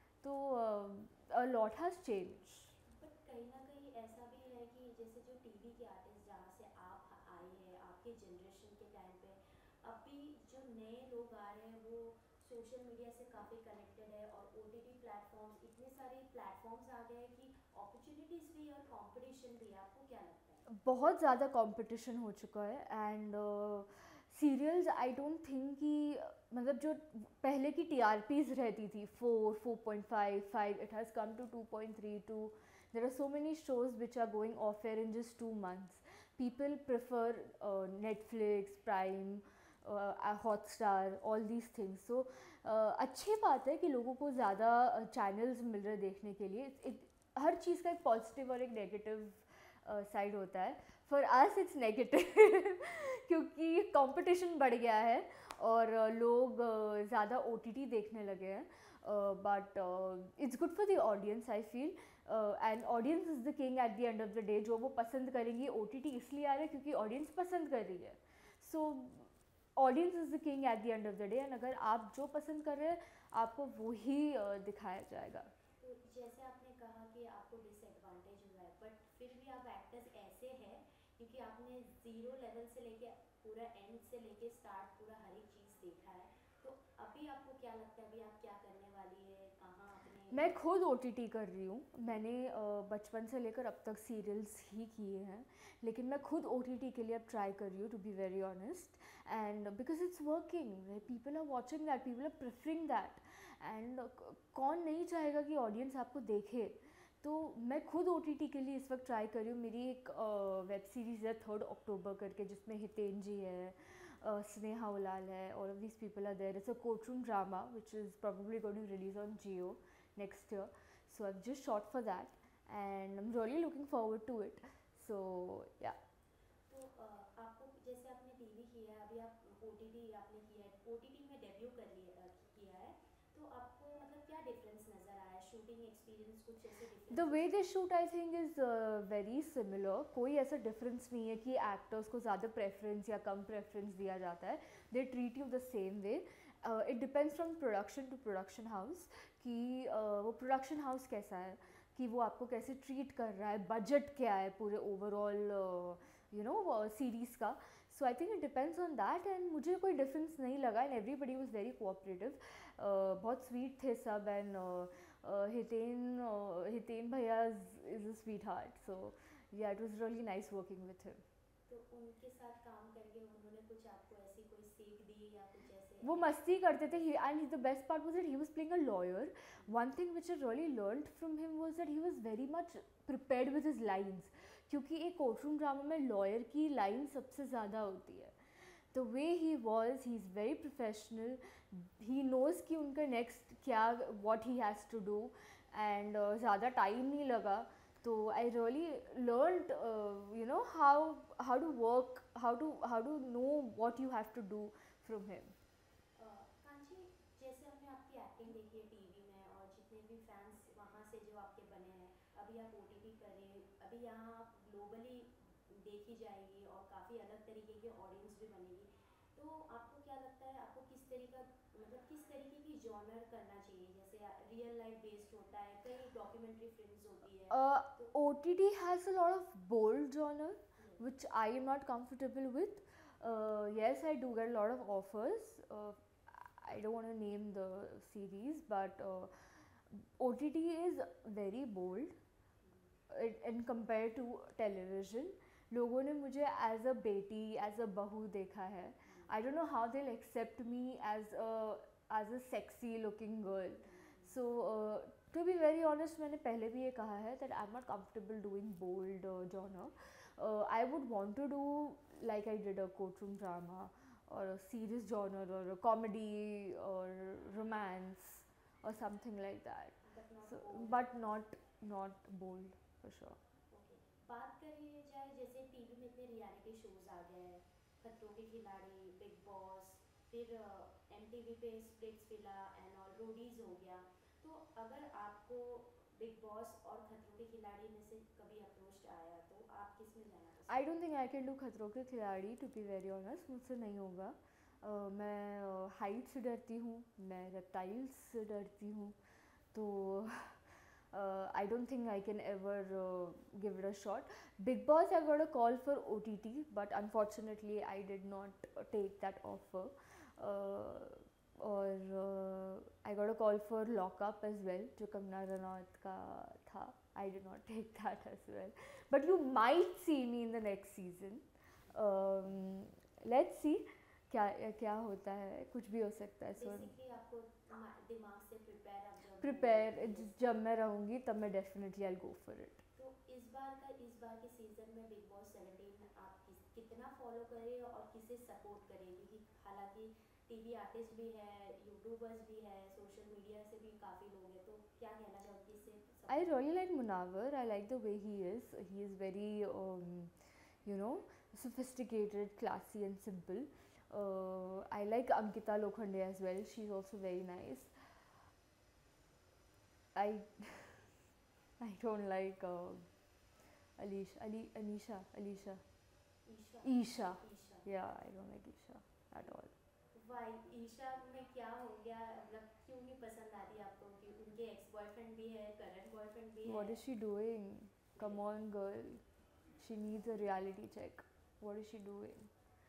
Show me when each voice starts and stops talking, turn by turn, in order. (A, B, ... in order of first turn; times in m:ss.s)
0:00.2-0:02.7 A
0:02.8-0:20.7 B
0:20.7-1:15.5 A
1:15.8-1:30.6 B
1:30.3-2:06.0 A
2:06.7-2:17.7 B
2:17.1-2:51.2 A
2:51.7-2:57.1 B
2:56.0-3:25.5 A
3:26.2-3:48.1 B
3:47.5-4:02.2 A
3:50.8-3:51.0 B
4:02.6-4:02.9 B
4:03.1-4:33.4 A
4:09.0-4:09.3 B
4:13.8-4:14.3 B
4:30.0-4:31.0 B
4:33.7-4:50.9 B
4:50.7-4:59.2 A
4:59.7-5:26.9 A
5:26.6-5:30.4 B
5:29.4-5:32.8 A
5:33.0-5:46.5 B
5:46.3-5:58.1 A
6:00.1-6:01.2 A
6:01.8-6:03.1 A
6:04.0-6:05.8 A
6:06.4-6:07.9 B
6:06.8-6:09.7 A
6:10.1-6:17.0 B
6:16.6-6:19.2 A
6:19.8-6:22.5 A